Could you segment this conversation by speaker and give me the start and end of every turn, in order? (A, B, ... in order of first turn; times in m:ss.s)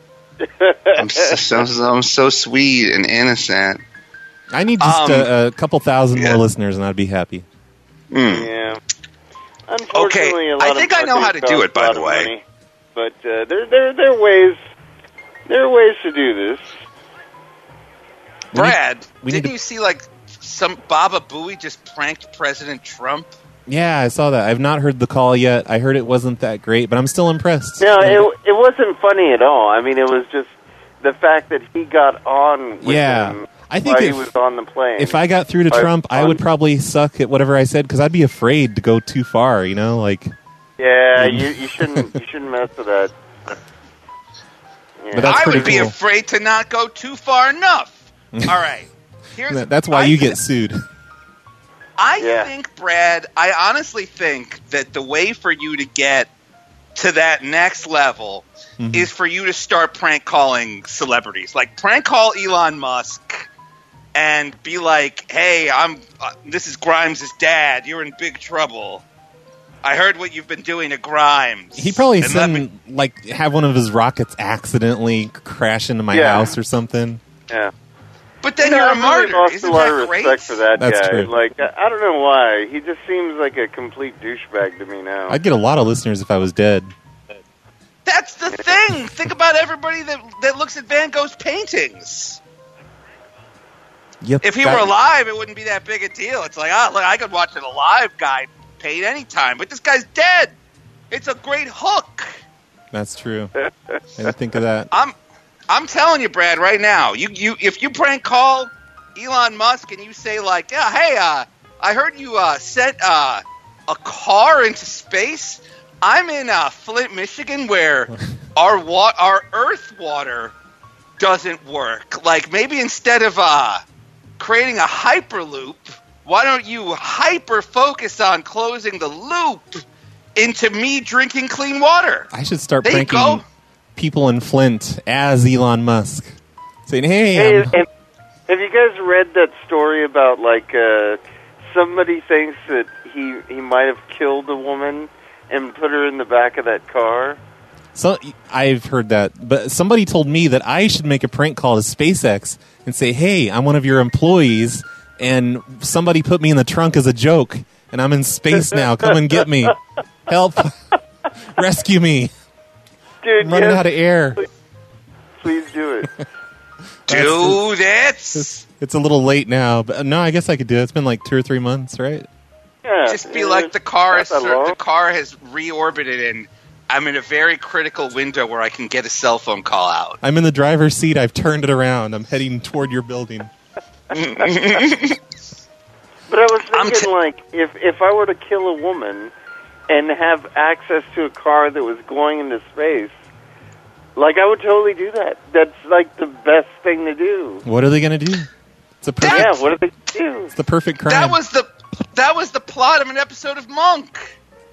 0:00.4-0:01.4 A
0:01.0-0:03.8 B
0:04.5-0:07.4 C
0:04.8-0:05.3 B
0:06.2-0:06.4 B
0:08.1-0:08.5 B
0:08.3-0:08.8 A
0:09.7-0:12.4 A
0:09.9-0:12.3 B
0:12.9-0:14.6 A
0:15.5-0:16.7 A
0:18.5-0:19.5 C
0:18.5-0:23.3 B
0:23.7-0:28.3 C
0:27.8-0:36.4 A
0:32.8-0:34.3 C
0:35.0-0:40.3 C
0:40.8-0:43.6 A
0:41.1-0:42.1 C
0:45.0-0:45.8 A
0:45.1-0:45.9 C
0:45.2-0:50.4 B
0:49.5-0:50.8 C
0:52.0-0:56.3 B
0:52.2-0:52.5 A
0:56.9-1:03.5 B
0:58.8-0:59.1 C
1:04.1-1:09.0 B
1:09.8-1:12.6 B
1:11.8-1:17.2 C
1:16.1-1:16.6 A
1:18.4-1:20.6 B
1:18.6-1:25.4 A
1:20.8-1:21.3 C
1:25.3-1:26.9 C
1:28.0-1:32.4 B
1:34.2-1:34.9 C
1:34.4-1:40.5 B
1:41.1-1:42.3 B
1:42.9-1:43.5 C
1:44.2-1:44.9 C
1:45.7-2:00.5 B
2:01.2-2:03.8 B
2:04.4-2:09.8 B
2:10.4-2:12.3 B
2:12.3-2:13.4 C
2:12.8-2:13.4 B
2:14.0-2:16.3 C
2:16.9-2:17.7 C
2:17.4-2:17.9 A
2:18.5-2:27.4 A
2:27.9-2:39.7 C
2:40.3-2:40.7 C
2:41.6-2:42.3 C
2:43.2-2:44.5 A
2:43.4-2:44.4 C
2:45.4-2:46.1 A
2:47.1-2:47.6 C
2:47.1-2:48.6 B
2:48.3-2:52.2 C
2:52.8-2:54.8 A
2:53.0-3:00.2 B
3:00.2-3:03.5 C
3:04.1-3:05.2 B
3:06.3-3:09.3 A
3:06.7-3:07.1 B
3:09.9-3:13.1 A
3:14.2-3:17.6 A
3:17.6-3:18.5 C
3:19.0-3:19.6 C
3:19.2-3:19.5 B
3:19.2-3:20.5 A
3:20.5-3:21.4 C
3:21.1-3:24.3 B